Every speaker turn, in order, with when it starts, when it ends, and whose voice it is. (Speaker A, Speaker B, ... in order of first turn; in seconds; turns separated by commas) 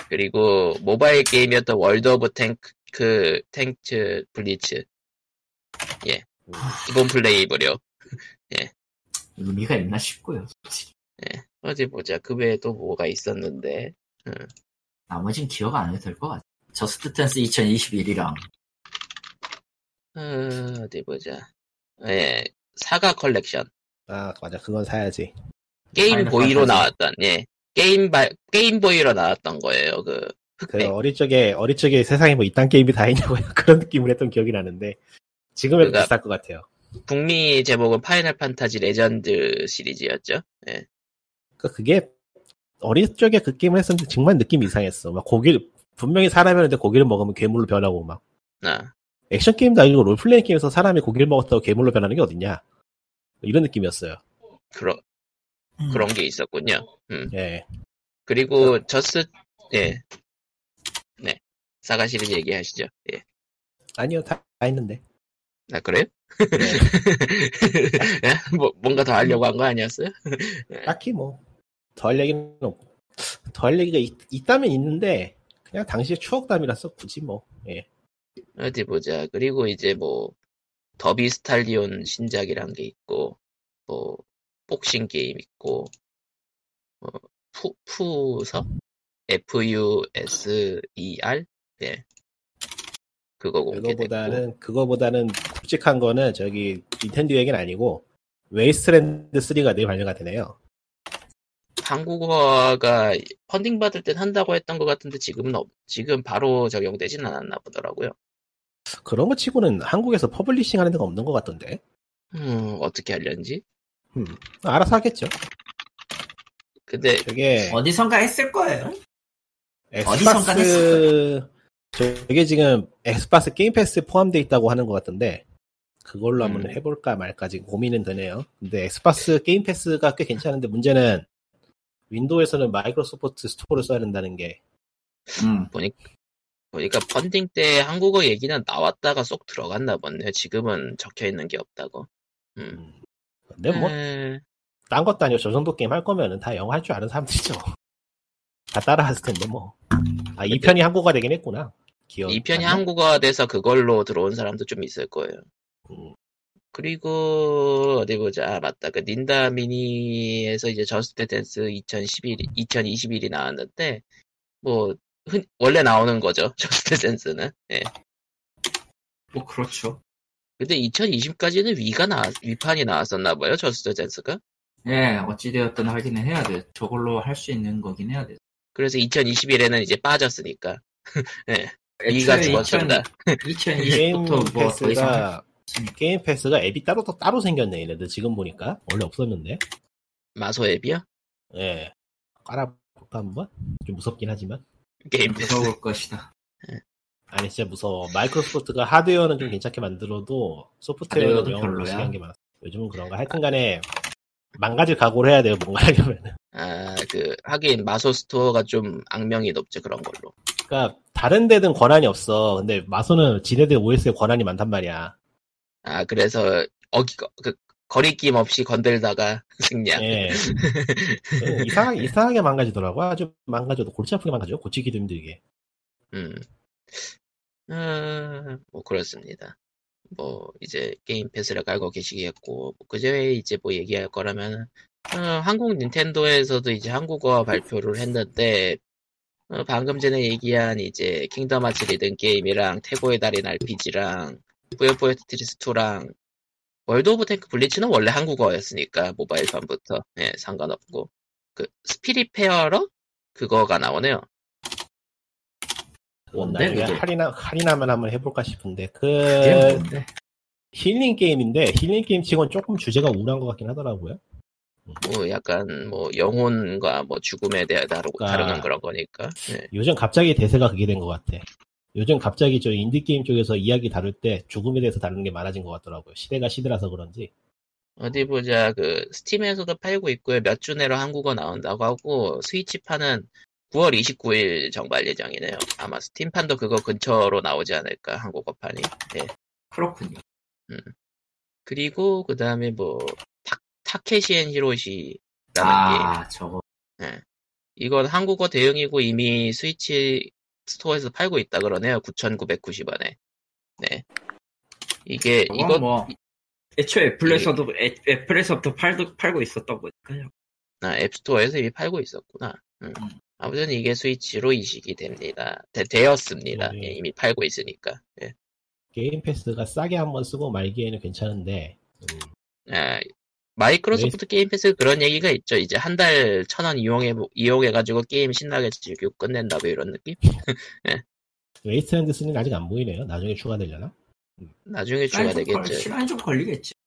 Speaker A: 0.1-4.8, Speaker B: 6.5-6.7, Speaker C: 6.6-6.9, Speaker A: 6.8-7.8, Speaker C: 9.4-10.9, Speaker A: 11.2-14.5, Speaker C: 15.1-18.4, Speaker A: 20.1-21.5, Speaker A: 22.0-23.7, Speaker B: 24.1-25.3, Speaker A: 25.9-30.9, Speaker C: 26.1-26.9, Speaker B: 30.7-35.0, Speaker B: 35.5-36.7, Speaker A: 35.8-36.1, Speaker A: 37.1-40.9, Speaker B: 41.6-42.2, Speaker B: 42.8-48.2, Speaker A: 48.6-48.9, Speaker B: 49.3-52.6, Speaker B: 53.4-54.2, Speaker A: 54.7-55.0, Speaker C: 55.8-56.1, Speaker A: 55.9-57.3, Speaker B: 57.3-57.6, Speaker A: 58.3-60.0, Speaker A: 61.2-63.2, Speaker B: 64.0-65.0, Speaker A: 65.7-70.9, Speaker B: 66.6-66.9, Speaker B: 70.9-71.4, Speaker B: 72.0-77.9, Speaker A: 78.6-80.3, Speaker A: 81.0-85.9, Speaker A: 87.0-88.7, Speaker A: 89.3-92.0, Speaker A: 93.4-94.4, Speaker B: 93.7-100.5, Speaker A: 101.8-108.1, Speaker B: 109.0-111.8, Speaker A: 112.3-113.6, Speaker B: 114.1-115.3, Speaker A: 116.9-117.2, Speaker B: 117.2-117.8, Speaker C: 117.6-119.0, Speaker B: 119.9-125.4, Speaker C: 120.0-121.1, Speaker B: 126.0-131.3, Speaker A: 126.4-126.8, Speaker B: 132.1-134.6, Speaker C: 135.4-135.7, Speaker A: 135.4-136.0, Speaker A: 136.7-142.8, Speaker B: 143.5-143.9, Speaker A: 143.7-144.4, Speaker B: 144.9-147.6, Speaker B: 148.7-149.8, Speaker B: 150.3-152.8, Speaker A: 150.5-150.8, Speaker A: 152.3-155.4, Speaker B: 155.9-156.1, Speaker A: 156.7-164.0, Speaker A: 164.6-167.9, Speaker C: 169.3-170.0, Speaker A: 170.6-174.4, Speaker C: 174.8-178.4, Speaker A: 178.8-184.0, Speaker C: 182.0-185.9, Speaker B: 182.4-182.7, Speaker B: 183.9-189.6, Speaker A: 190.4-191.0, Speaker B: 191.5-191.9, Speaker B: 192.4-194.6, Speaker A: 195.1-195.7, Speaker C: 195.2-196.3, Speaker B: 197.3-203.9, Speaker C: 201.1-202.2, Speaker B: 204.6-206.3, Speaker A: 206.5-210.3, Speaker B: 210.7-215.2, Speaker A: 215.8-222.1, Speaker B: 219.9-220.5, Speaker B: 221.4-225.4, Speaker A: 226.1-227.1, Speaker A: 227.7-229.6, Speaker A: 230.1-238.8, Speaker A: 239.5-246.1, Speaker A: 246.9-254.3, Speaker B: 256.3-259.9, Speaker C: 256.4-257.0, Speaker C: 259.3-260.1, Speaker B: 260.7-264.2, Speaker A: 265.0-269.7, Speaker B: 268.2-268.7, Speaker B: 269.7-277.3, Speaker A: 278.0-289.3, Speaker C: 289.7-290.2, Speaker A: 291.7-296.1, Speaker C: 295.6-296.6, Speaker A: 297.8-303.2, Speaker A: 303.8-304.1, Speaker A: 305.1-306.1, Speaker C: 305.5-306.1, Speaker C: 306.8-310.3, Speaker A: 307.2-307.5, Speaker A: 310.8-318.3, Speaker B: 316.5-317.0, Speaker B: 318.9-322.3, Speaker A: 322.7-331.0, Speaker B: 331.6-334.5, Speaker A: 334.7-335.9, Speaker C: 335.1-336.8